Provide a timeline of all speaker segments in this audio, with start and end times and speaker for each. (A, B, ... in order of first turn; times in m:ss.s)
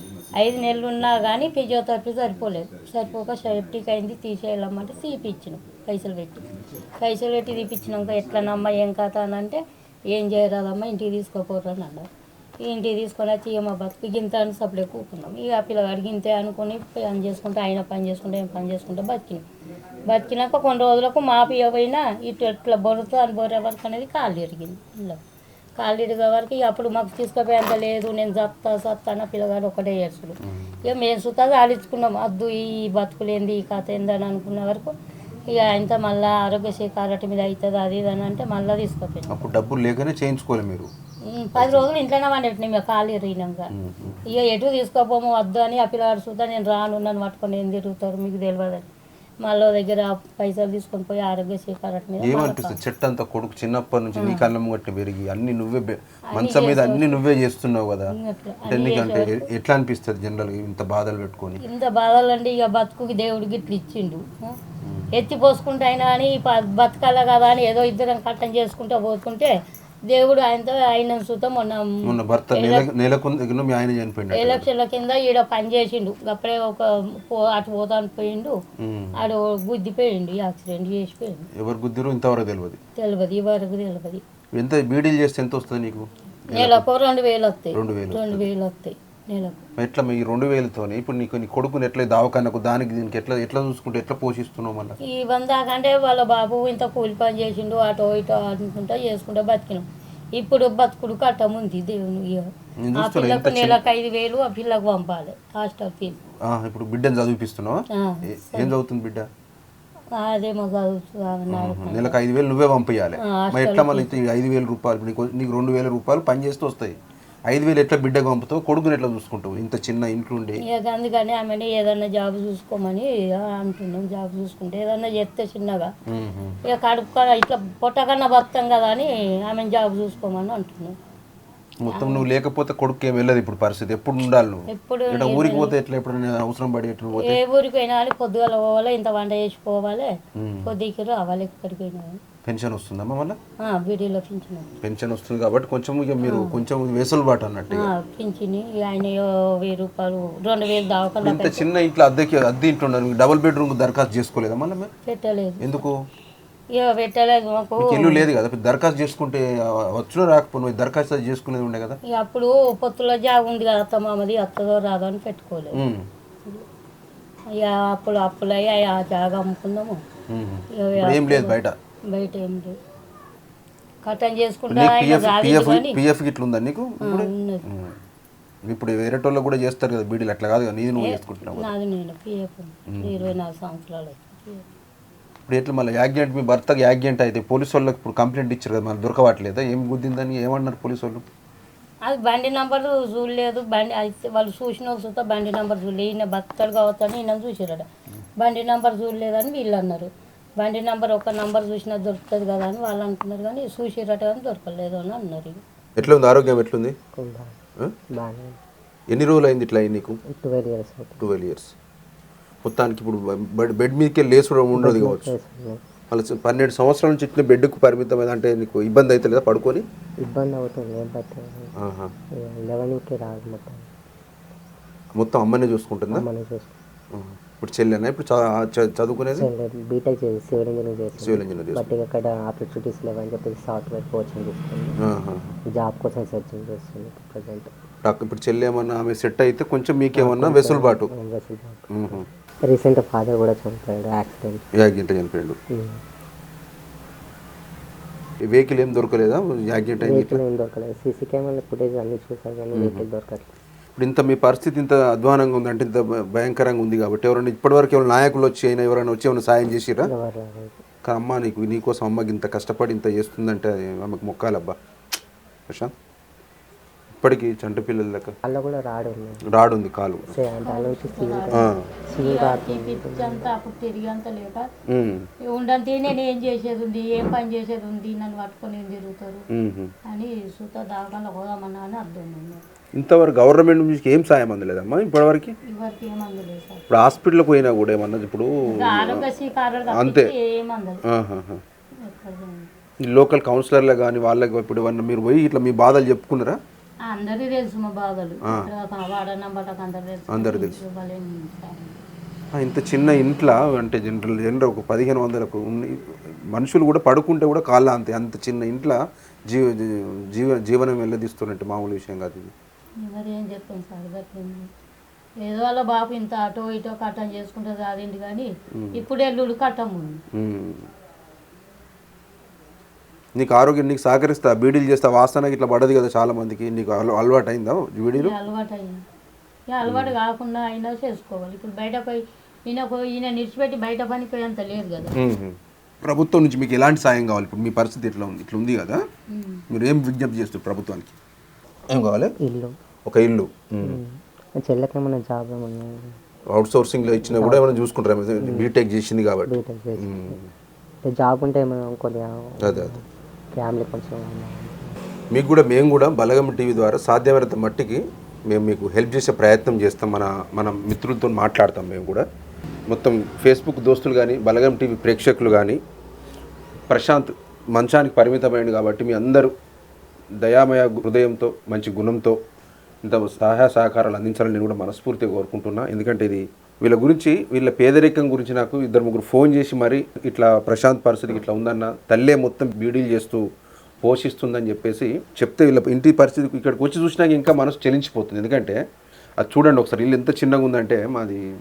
0:00.4-0:06.4 A
0:07.0-0:12.0 A
0:12.6-0:19.4 A
0:20.1-0:25.2 A
0:25.8-0:34.9 A
0:35.5-0:39.5 A
0:39.3-0:40.9 B
0:41.3-0:43.7 A
0:41.6-0:41.9 B
0:43.7-0:44.2 B
0:44.3-0:48.9 A
0:49.4-0:52.8 A
0:52.2-0:58.1 B
0:54.1-0:54.5 A
0:56.3-0:57.2 A
0:58.1-0:59.4 A
0:58.7-1:01.6 B
1:01.6-1:04.6 A
1:04.8-1:05.1 B
1:05.1-1:09.6 A
1:10.1-1:12.9 A
1:12.0-1:14.7 B
1:14.3-1:18.6 A
1:18.8-1:19.1 B
1:19.2-1:21.5 A
1:21.6-1:22.8 B
1:23.0-1:24.2 A
1:24.6-1:26.8 B
1:26.5-1:29.6 A
1:27.7-1:28.5 B
1:29.8-1:34.9 B
1:35.0-1:46.2 A
1:42.8-1:43.8 B
1:46.5-1:49.3 B
1:47.9-1:48.8 A
1:50.1-1:52.2 A
1:51.5-1:57.0 B
1:53.2-1:54.2 A
1:57.5-2:00.6 B
2:00.6-2:05.9 A
2:06.1-2:06.6 B
2:06.7-2:10.9 A
2:11.8-2:17.4 B
2:11.9-2:12.3 A
2:14.7-2:15.8 A
2:17.2-2:20.1 A
2:20.4-2:20.7 B
2:20.6-2:22.2 A
2:22.4-2:23.4 B
2:23.6-2:24.8 A
2:24.8-2:27.9 B
2:26.2-2:26.6 A
2:27.7-2:31.6 A
2:31.2-2:34.9 B
2:35.0-2:35.8 A
2:35.6-2:36.0 B
2:36.7-2:38.3 A
2:37.8-2:42.0 B
2:42.1-2:45.8 A
2:45.8-2:46.1 B
2:47.6-2:50.0 A
2:50.3-2:51.7 B
2:50.7-2:52.8 A
2:54.0-2:56.0 A
2:54.7-2:58.0 B
2:57.0-2:57.6 A
2:58.7-3:01.7 B
3:01.0-3:04.7 A
3:02.9-3:03.3 B
3:05.5-3:11.2 B
3:12.0-3:17.8 A
3:18.4-3:25.6 A
3:26.0-3:27.0 B
3:27.1-3:27.6 C
3:28.1-3:28.6 C
3:29.1-3:30.2 B
3:30.3-3:31.3 C
3:31.2-3:31.7 B
3:32.6-3:35.3 B
3:34.7-3:35.8 C
3:36.1-3:39.8 B
3:40.2-3:41.7 C
3:41.8-3:42.1 B
3:42.4-3:43.9 C
3:45.2-3:46.2 B
3:46.1-3:46.7 C
3:47.1-3:49.5 B
3:49.3-3:55.0 C
3:51.2-3:51.9 B
3:55.0-3:55.6 B
3:55.7-3:57.7 C
3:58.0-4:01.1 B
4:00.1-4:04.6 C
4:01.9-4:02.3 B
4:04.8-4:05.6 B
4:05.7-4:06.0 C
4:08.4-4:10.4 B
4:10.0-4:13.5 C
4:12.7-4:13.0 B
4:14.0-4:20.1 B
4:20.0-4:20.8 C
4:21.0-4:24.8 B
4:27.1-4:28.3 B
4:28.4-4:29.4 C
4:29.5-4:30.4 B
4:30.3-4:33.5 C
4:30.6-4:34.6 A
4:31.5-4:31.9 B
4:34.9-4:35.3 B
4:35.5-4:39.4 A
4:39.5-4:39.9 B
4:40.0-4:42.6 A
4:43.0-4:45.5 B
4:45.7-4:46.8 A
4:46.9-4:49.3 B
4:48.7-4:51.0 A
4:49.9-4:50.3 B
4:51.1-4:51.6 B
4:52.0-4:52.7 A
4:53.0-4:56.6 B
4:57.1-5:02.0 A
5:00.3-5:00.8 B
5:02.5-5:12.5 B
5:13.0-5:14.7 A
5:15.4-5:20.2 A
5:18.8-5:19.0 B
5:20.4-5:20.9 B
5:23.4-5:28.3 B
5:28.2-5:29.0 A
5:29.7-5:35.1 A
5:29.8-5:30.1 B
5:35.2-5:39.0 B
5:39.3-5:39.6 A
5:39.7-5:41.1 B
5:41.9-5:42.3 B
5:42.4-5:42.7 C
5:43.1-5:44.0 B
5:43.8-5:46.2 C
5:46.5-5:50.5 B
5:47.3-5:47.7 C
5:48.4-5:48.7 C
5:49.4-5:50.4 C
5:51.0-5:54.9 C
5:52.6-5:52.9 B
5:55.3-6:02.2 B
6:02.9-6:05.8 B
6:06.9-6:09.5 B
6:10.4-6:12.4 B
6:13.0-6:23.4 B
6:24.0-6:28.8 B
6:29.4-6:31.4 B